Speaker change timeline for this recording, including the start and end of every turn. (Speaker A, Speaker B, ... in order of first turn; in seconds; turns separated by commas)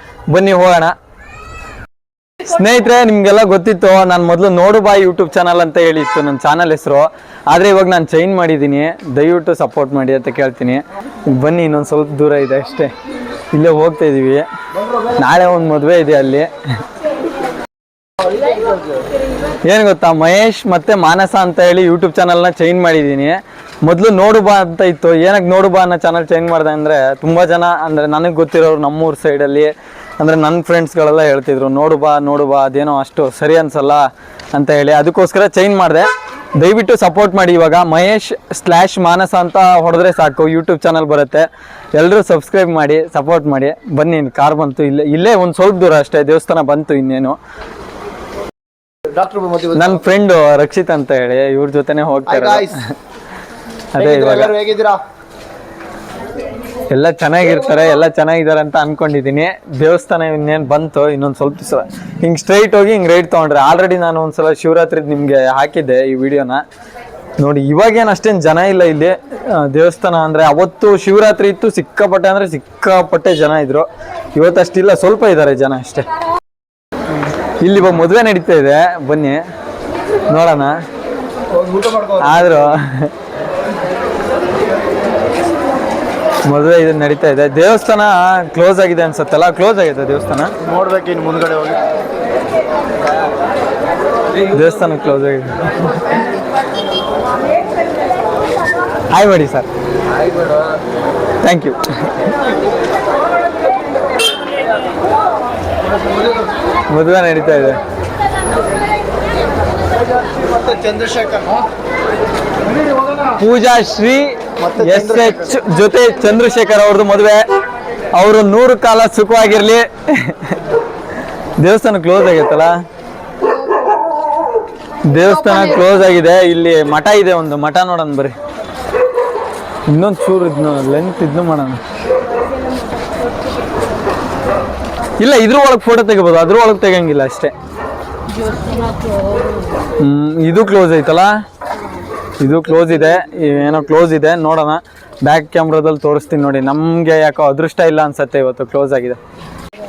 Speaker A: 0.3-0.9, Speaker A: 2.4-12.9, Speaker A: 13.5-14.4, Speaker A: 15.1-16.5, Speaker A: 19.6-47.4, Speaker B: 49.1-50.0, Speaker A: 49.7-52.9, Speaker B: 52.2-52.7, Speaker A: 53.9-54.5, Speaker B: 54.0-55.0, Speaker A: 56.9-66.6, Speaker A: 67.4-76.0, Speaker A: 77.6-79.4, Speaker A: 80.3-80.8, Speaker B: 81.5-82.5, Speaker A: 82.2-83.1, Speaker A: 86.5-90.5, Speaker B: 90.6-91.8, Speaker A: 94.4-95.9, Speaker A: 99.1-99.7, Speaker A: 101.4-102.3, Speaker A: 106.9-107.8, Speaker B: 110.2-111.6, Speaker A: 113.3-117.4, Speaker B: 114.6-115.6, Speaker A: 118.1-120.6, Speaker A: 121.6-122.7, Speaker A: 125.1-128.3, Speaker A: 129.9-131.8, Speaker A: 135.2-137.5, Speaker A: 140.0-141.3, Speaker A: 142.4-149.2